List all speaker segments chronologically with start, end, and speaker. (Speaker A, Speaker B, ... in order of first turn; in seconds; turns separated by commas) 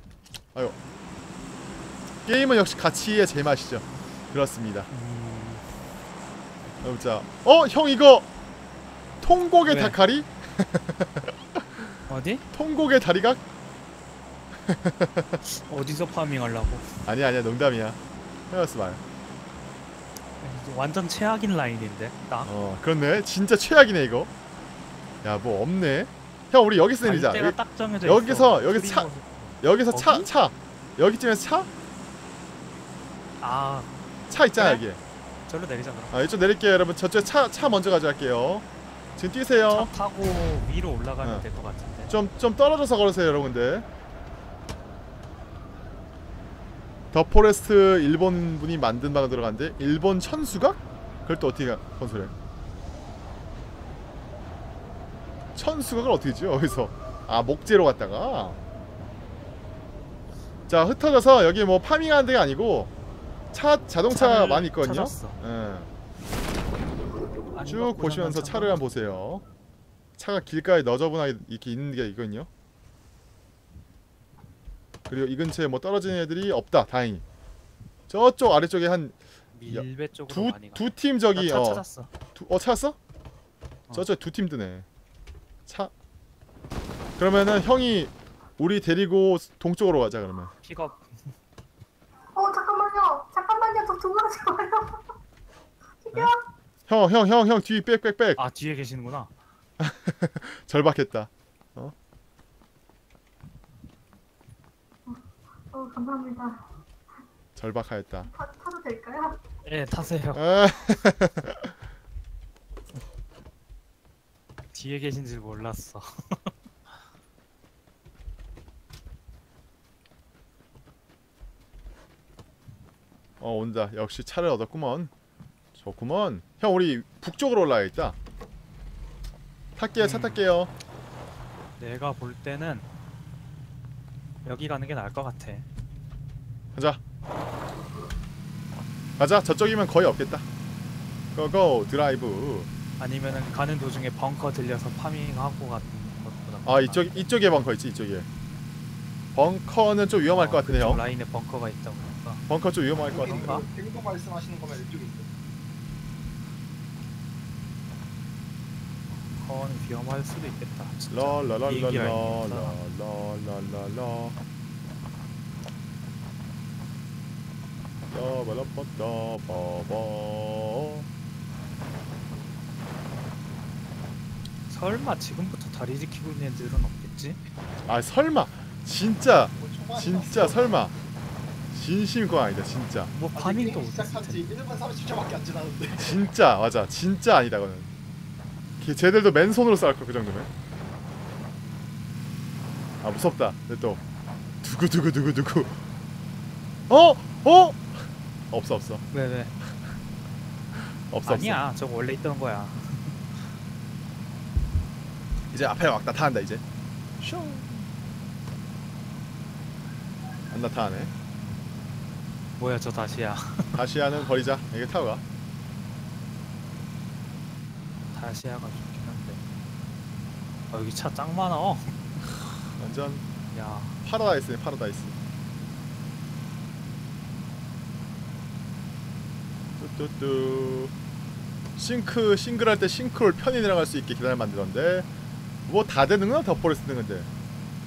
Speaker A: 2.2-4.9, Speaker B: 4.9-5.6, Speaker A: 6.8-8.3, Speaker A: 9.2-11.6, Speaker B: 9.6-10.0, Speaker B: 12.1-12.4, Speaker A: 12.5-13.4, Speaker A: 14.7-15.4, Speaker B: 15.5-16.9, Speaker A: 17.0-18.0, Speaker A: 18.5-19.0, Speaker B: 20.4-22.5, Speaker A: 22.4-24.3, Speaker A: 25.2-29.1, Speaker B: 27.0-30.3, Speaker A: 29.6-31.7, Speaker B: 33.4-33.9, Speaker A: 34.3-35.0, Speaker B: 34.5-34.8, Speaker B: 35.5-36.1, Speaker A: 36.1-38.6, Speaker A: 39.2-39.9, Speaker B: 39.7-42.1, Speaker A: 42.1-43.9, Speaker A: 47.1-52.3, Speaker A: 55.5-58.6, Speaker A: 60.7-62.9, Speaker A: 63.5-65.9, Speaker B: 64.1-65.3, Speaker B: 67.5-68.8, Speaker A: 67.7-69.4, Speaker A: 70.2-72.5, Speaker A: 75.1-77.2, Speaker A: 78.1-79.2, Speaker B: 79.5-82.1, Speaker A: 79.7-81.8, Speaker A: 82.3-83.0, Speaker A: 83.9-84.8, Speaker A: 85.7-85.9, Speaker A: 87.2-90.5, Speaker B: 90.6-91.3, Speaker C: 92.3-95.1, Speaker C: 96.0-96.4, Speaker A: 96.9-98.4, Speaker B: 98.4-99.3, Speaker A: 99.8-101.9, Speaker C: 105.0-106.8, Speaker A: 107.5-108.3, Speaker C: 108.2-109.4, Speaker B: 109.6-110.7, Speaker A: 110.3-111.7, Speaker B: 114.7-116.5, Speaker A: 123.4-125.1, Speaker A: 125.7-128.2, Speaker A: 129.8-130.7, Speaker B: 130.0-130.4, Speaker B: 131.8-132.9, Speaker B: 134.4-135.6, Speaker A: 136.7-137.0, Speaker A: 139.2-140.4, Speaker A: 141.3-142.7, Speaker B: 143.0-147.3, Speaker A: 146.6-148.3, Speaker A: 149.3-151.0, Speaker B: 150.2-152.4, Speaker A: 152.5-153.6, Speaker D: 153.1-155.3, Speaker B: 153.3-153.6, Speaker B: 159.3-162.8, Speaker A: 161.1-164.4, Speaker A: 168.1-171.1, Speaker B: 174.7-177.4, Speaker A: 177.8-180.9, Speaker D: 179.5-180.9, Speaker A: 181.7-183.1, Speaker B: 183.1-184.4, Speaker D: 183.3-186.2, Speaker A: 186.0-187.9, Speaker A: 188.8-190.5, Speaker A: 193.0-194.0, Speaker A: 194.6-195.8, Speaker A: 196.9-199.0, Speaker B: 199.1-199.5, Speaker A: 201.1-201.6, Speaker B: 201.2-203.4, Speaker A: 205.5-206.6, Speaker A: 207.2-207.9, Speaker A: 210.5-211.1, Speaker B: 212.6-213.8, Speaker A: 213.7-215.2, Speaker B: 218.1-219.4, Speaker B: 220.7-221.9, Speaker A: 222.8-223.2, Speaker B: 223.5-224.0, Speaker A: 224.0-225.2, Speaker A: 229.8-230.9, Speaker A: 231.8-235.1, Speaker A: 235.7-237.3